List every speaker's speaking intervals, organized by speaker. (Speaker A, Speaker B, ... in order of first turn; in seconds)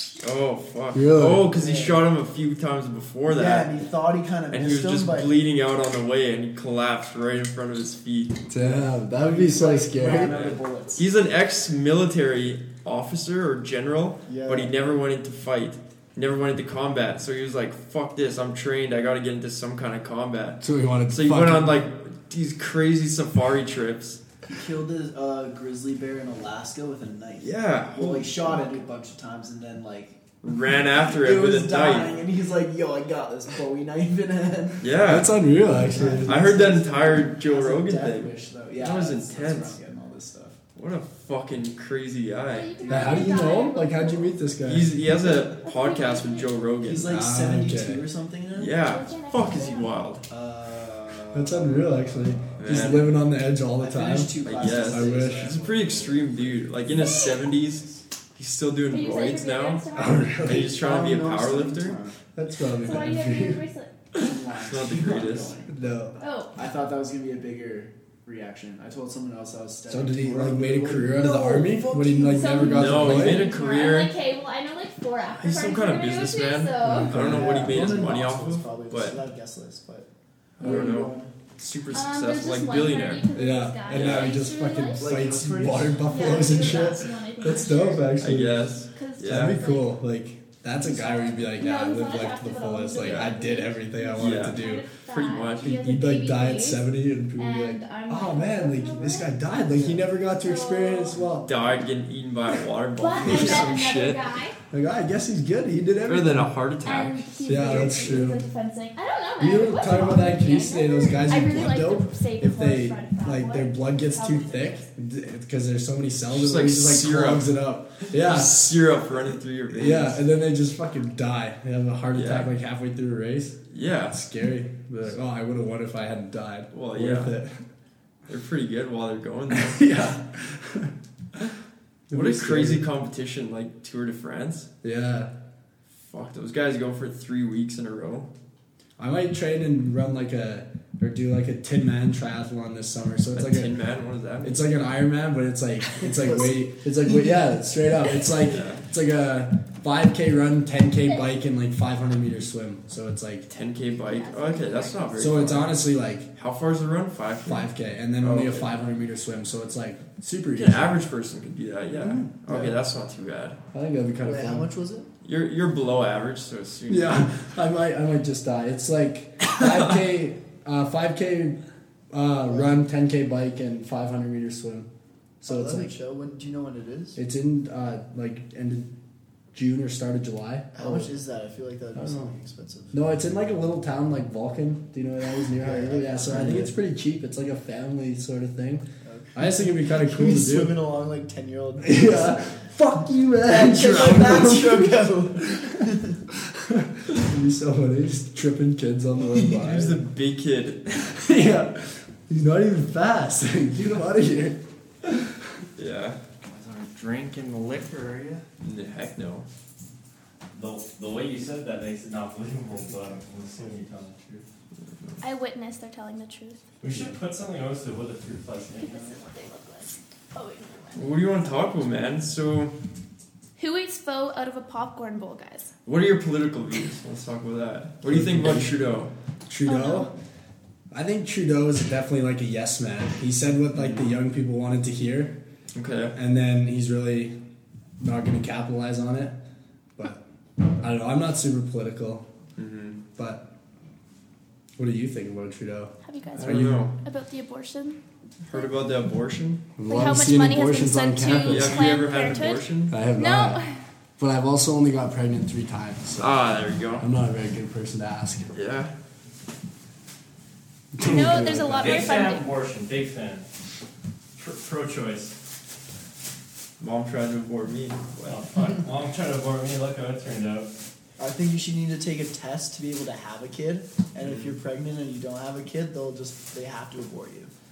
Speaker A: 0.2-3.8, 4.5-8.4, 10.1-24.2, 27.4-28.7, 30.4-32.2, 34.8-35.3, 36.2-39.8, 40.7-43.2, 44.6-47.1, 48.5-50.3, 52.5-53.2, 54.4-59.9, 60.4-62.0, 64.2-65.5, 72.6-74.1, 75.2-79.2, 80.6-83.3, 83.9-84.3, 88.2-89.6, 93.0-93.3, 94.2-95.9, 101.4-104.2, 106.0-108.2, 116.3-117.5, 118.1-120.2, 122.1-122.5, 123.7-124.2, 126.7-127.3, 128.3-130.0, 132.1-134.7, 136.0-138.3, 143.3-144.7, 148.4-148.8, 153.4-155.8, 156.3-158.7, 160.5-163.6, 165.2-167.4, 199.5-201.3, 205.8-206.2, 208.6-209.4, 214.8-215.2, 220.9-222.7, 225.8-229.1, 233.7-234.1, 235.7-236.2, 242.6-243.0, 246.3-246.9, 248.4-249.7, 251.3-253.0, 256.2-257.1, 258.5-258.9, 266.8-268.4, 274.2-274.6
Speaker B: 0.9-1.5, 8.5-10.4, 20.6-21.8, 35.1-36.4, 42.9-44.9, 47.1-48.0, 51.3-55.5, 59.9-60.7, 62.3-63.6, 65.7-66.2, 69.9-73.5, 76.8-77.9, 83.3-88.7, 89.2-94.9, 95.8-101.5, 104.7-106.5, 107.4-108.4, 109.4-118.8, 119.7-123.6, 124.1-127.6, 129.5-130.9, 132.1-132.8, 134.8-135.3, 139.0-143.7, 144.4-153.5, 155.2-156.3, 157.4-161.0, 162.0-162.3, 163.7-164.7, 166.9-171.6, 172.1-174.9, 175.4-175.9, 177.2-178.9, 179.5-181.1, 181.9-182.3, 182.9-190.8, 191.8-195.0, 196.5-200.0, 201.2-205.1, 228.0-228.8, 229.5-230.1, 230.9-235.4, 236.1-237.3, 238.0-239.4, 240.0-240.2, 240.8-242.3, 243.2-243.5, 244.8-246.9, 249.8-252.0, 252.9-253.6, 254.2-256.3, 257.0-258.5, 260.9-262.1
Speaker C: 1.5-2.0, 3.3-5.3, 8.6-11.1, 14.2-14.7, 24.4-30.2, 30.9-34.9, 35.6-40.6, 46.8-48.8, 50.3-52.8, 53.8-56.7, 60.5-62.1, 64.1-65.9, 66.5-73.2, 77.1-80.1, 80.6-81.3, 85.0-87.0, 145.9-147.3, 162.5-162.8, 164.2-165.1, 172.4-172.8, 175.4-177.2, 180.7-183.0, 185.6-186.7, 189.0-192.7, 193.5-196.2, 199.2-199.6, 271.2-277.5
Speaker D: 42.5-44.4, 45.2-46.6, 48.7-50.0, 56.9-57.4, 58.9-60.5, 62.7-64.0, 66.2-66.6, 72.3-77.1, 80.6-81.0, 81.9-85.1, 86.1-88.2, 88.9-89.9, 90.7-96.8, 97.4-99.7, 100.3-101.7, 102.9-104.6, 106.8-114.8, 151.0-151.3, 153.9-155.4, 215.2-216.6, 218.7-221.1, 223.6-225.7, 229.6-230.1, 246.0-248.0, 249.9-253.8, 261.0-262.5
Speaker E: 206.4-208.4, 210.5-214.4, 216.8-219.2, 261.0-263.5, 264.4-265.3, 268.2-270.7